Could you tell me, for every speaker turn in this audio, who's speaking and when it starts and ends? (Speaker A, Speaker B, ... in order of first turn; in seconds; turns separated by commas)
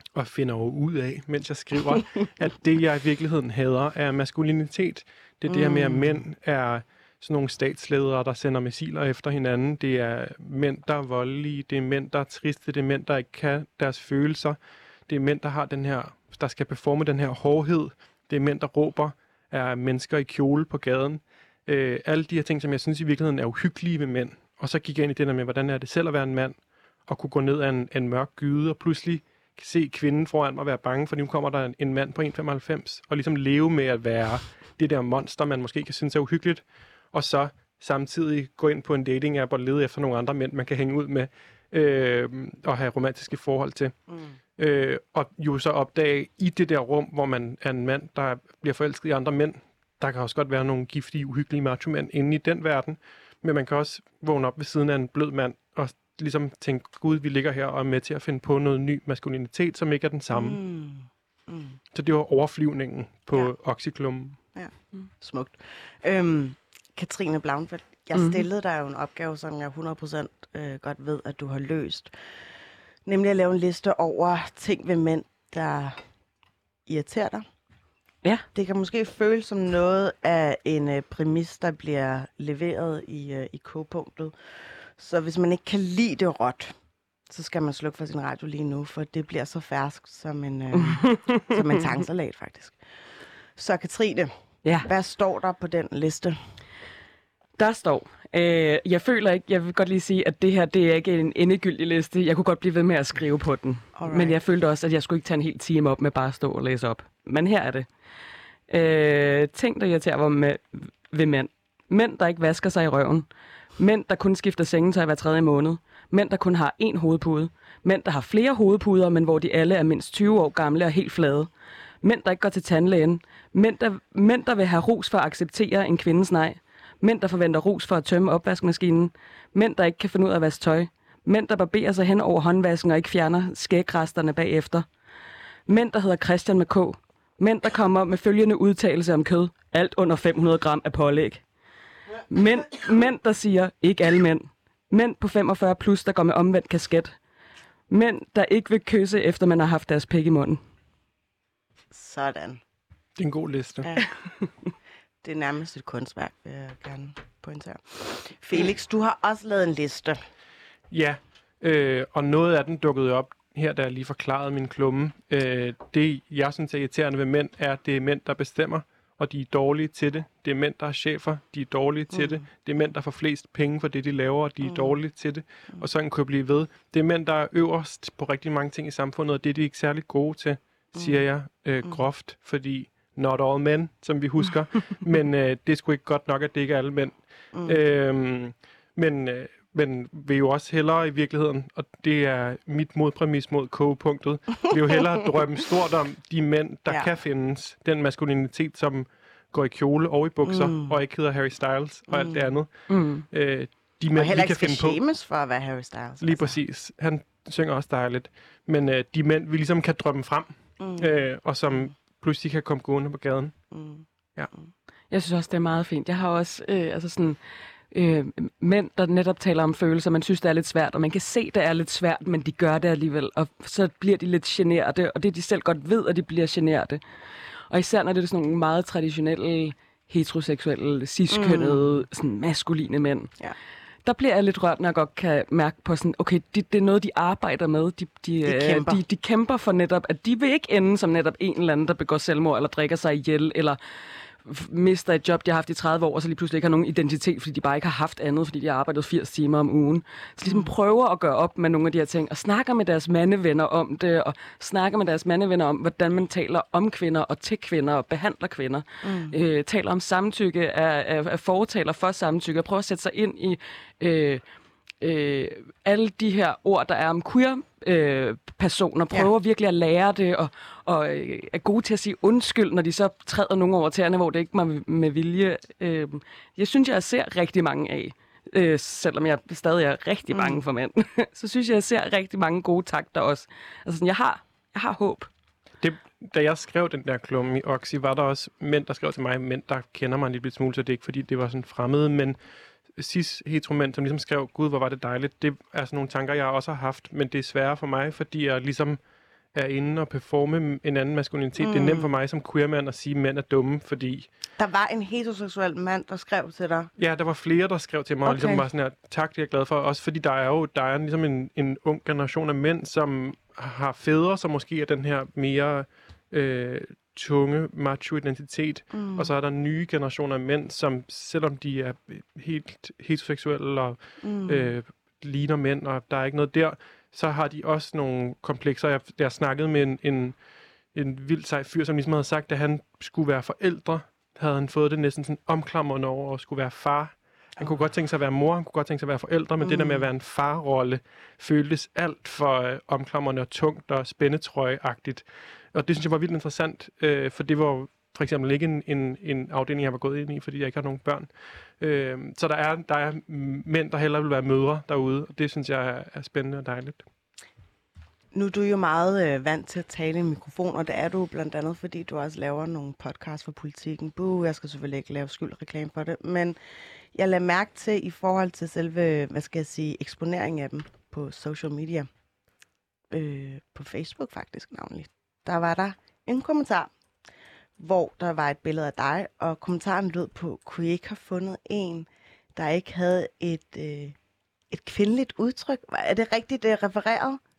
Speaker A: 0.1-44.0, Speaker B: 5.5-6.2, Speaker B: 44.1-44.4, Speaker A: 44.6-60.6, Speaker B: 60.3-61.8, Speaker A: 61.9-64.4, Speaker B: 64.5-72.1, Speaker C: 68.1-68.4, Speaker B: 73.1-76.0, Speaker B: 76.9-77.5, Speaker B: 78.5-86.7, Speaker B: 87.3-92.8, Speaker C: 90.8-91.6, Speaker B: 93.6-96.4, Speaker C: 97.6-107.9, Speaker B: 104.0-104.4, Speaker C: 108.7-113.3, Speaker C: 113.8-121.5, Speaker C: 122.0-134.9, Speaker C: 135.7-141.4, Speaker C: 142.3-147.1, Speaker C: 147.9-150.6, Speaker B: 151.9-152.6, Speaker A: 153.2-153.9, Speaker B: 153.8-154.1, Speaker B: 155.2-160.2, Speaker A: 160.9-205.0, Speaker B: 172.1-172.4, Speaker B: 174.6-175.0, Speaker B: 180.9-181.2, Speaker B: 187.5-187.8, Speaker B: 200.4-201.0, Speaker B: 202.1-202.6, Speaker C: 202.9-203.2, Speaker B: 204.1-206.6, Speaker A: 206.2-213.6, Speaker B: 210.8-211.2, Speaker B: 213.7-214.7, Speaker C: 215.1-217.4, Speaker C: 217.9-227.0, Speaker C: 227.7-233.3, Speaker B: 231.3-231.9, Speaker C: 234.1-243.8, Speaker B: 238.4-239.0, Speaker C: 244.4-264.4, Speaker B: 250.4-250.7, Speaker B: 259.0-259.4, Speaker C: 265.0-285.3, Speaker B: 280.3-280.6, Speaker A: 285.8-292.4, Speaker A: 292.9-299.0, Speaker A: 299.5-304.3, Speaker B: 301.6-302.1, Speaker B: 304.6-306.9, Speaker A: 307.0-330.4, Speaker B: 308.2-308.6, Speaker B: 318.9-319.3, Speaker B: 324.2-324.8, Speaker A: 330.9-357.1, Speaker B: 339.6-340.1, Speaker B: 358.3-366.6, Speaker B: 367.1-372.1, Speaker B: 373.1-376.9, Speaker B: 377.8-384.1, Speaker B: 384.7-387.4